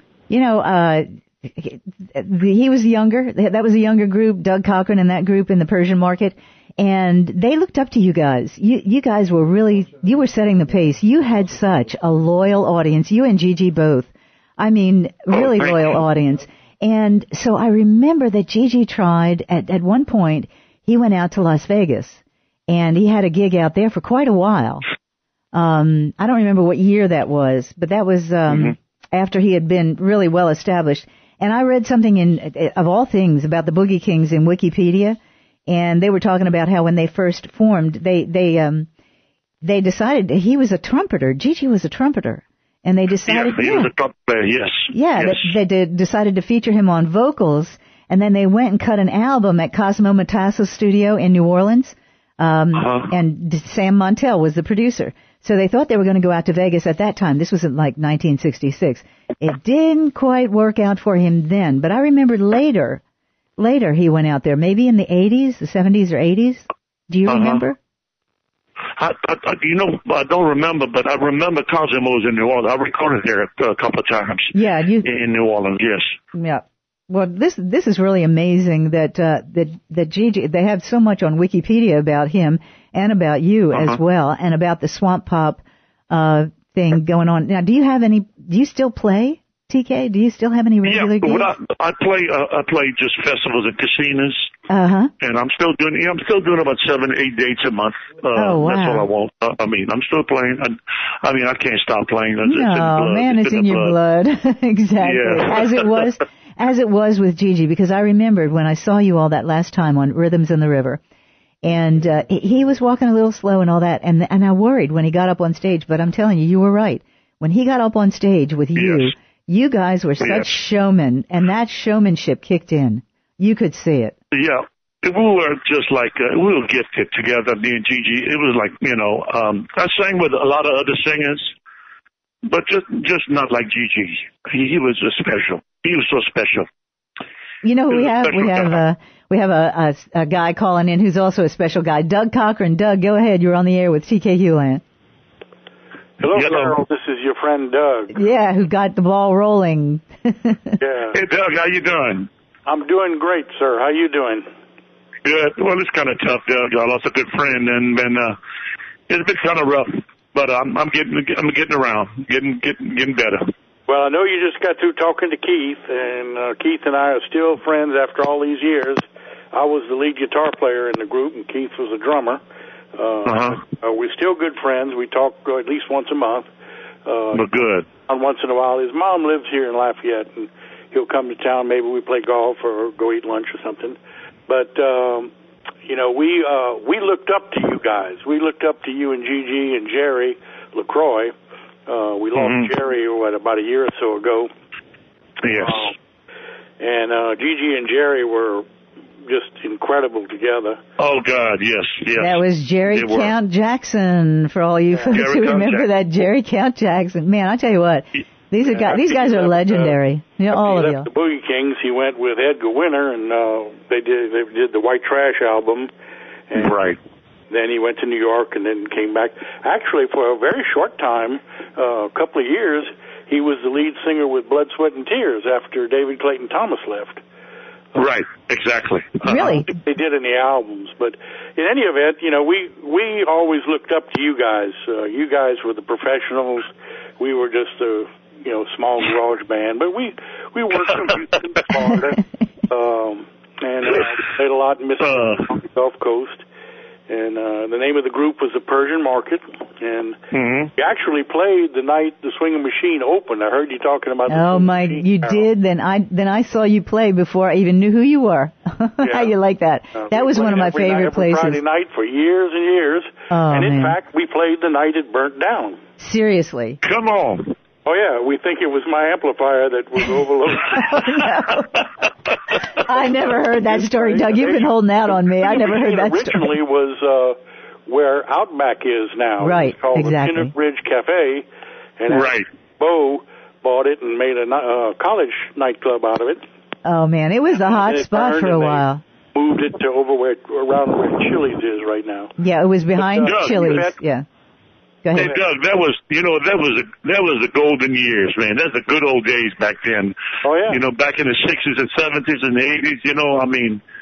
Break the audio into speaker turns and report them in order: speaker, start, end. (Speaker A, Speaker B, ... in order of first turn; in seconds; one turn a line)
Speaker A: 0.3-24.9
Speaker B: 15.3-15.9
Speaker A: 25.5-38.9
Speaker A: 39.6-43.9
Speaker B: 43.3-45.5
Speaker A: 44.9-63.0
Speaker B: 52.8-53.1
Speaker A: 63.6-67.8
Speaker B: 67.3-67.6
Speaker B: 69.0-76.2
Speaker A: 74.5-75.1
Speaker A: 76.3-91.6
Speaker B: 90.8-94.5
Speaker A: 94.7-95.1
Speaker B: 95.2-104.0
Speaker A: 98.3-99.1
Speaker A: 102.5-111.0
Speaker B: 105.0-106.1
Speaker A: 111.6-124.2
Speaker B: 118.8-119.1
Speaker B: 120.2-120.5
Speaker B: 124.3-131.5
Speaker B: 132.4-136.7
Speaker A: 137.6-144.8
Speaker B: 137.9-138.8
Speaker C: 146.2-148.2
Speaker B: 146.3-146.8
Speaker A: 148.1-150.8
Speaker C: 150.8-151.2
Speaker B: 151.1-152.3
Speaker C: 152.7-154.5
Speaker B: 155.2-158.4
Speaker B: 159.1-163.5
Speaker C: 163.9-172.4
Speaker C: 172.9-176.5
Speaker B: 173.3-173.6
Speaker C: 177.1-177.5
Speaker B: 177.3-177.9
Speaker C: 178.1-185.3
Speaker C: 185.9-191.3
Speaker C: 191.9-194.5
Speaker B: 192.4-192.7
Speaker B: 195.4-195.9
Speaker C: 195.5-195.9
Speaker C: 196.8-198.7
Speaker C: 199.3-200.8
Speaker B: 201.0-203.3
Speaker A: 202.2-211.1
Speaker B: 205.1-205.9
Speaker B: 208.8-209.9
Speaker C: 210.6-215.9
Speaker C: 216.5-216.8
Speaker B: 216.6-217.0
Speaker C: 217.5-227.2
Speaker B: 227.9-229.6
Speaker A: 229.3-229.7
Speaker C: 229.7-246.4
Speaker B: 245.0-245.4
Speaker C: 247.1-250.2
Speaker B: 250.3-250.7
Speaker C: 250.8-255.4
Speaker A: 254.3-261.6
Speaker C: 259.0-259.4
Speaker C: 259.9-265.8
Speaker A: 263.3-264.0
Speaker A: 266.0-266.8
Speaker B: 266.8-267.6
Speaker C: 267.9-270.9
Speaker A: 270.7-271.8
Speaker A: 272.8-276.6
Speaker C: 273.5-281.5
Speaker A: 279.4-280.5
Speaker C: 282.0-286.4
Speaker B: 282.1-282.4
Speaker A: 286.9-289.0
Speaker C: 287.8-292.3
Speaker A: 292.4-294.2
Speaker C: 293.0-294.0
Speaker B: 293.2-293.9
Speaker A: 295.0-295.3
Speaker B: 295.1-303.8
Speaker C: 300.4-300.8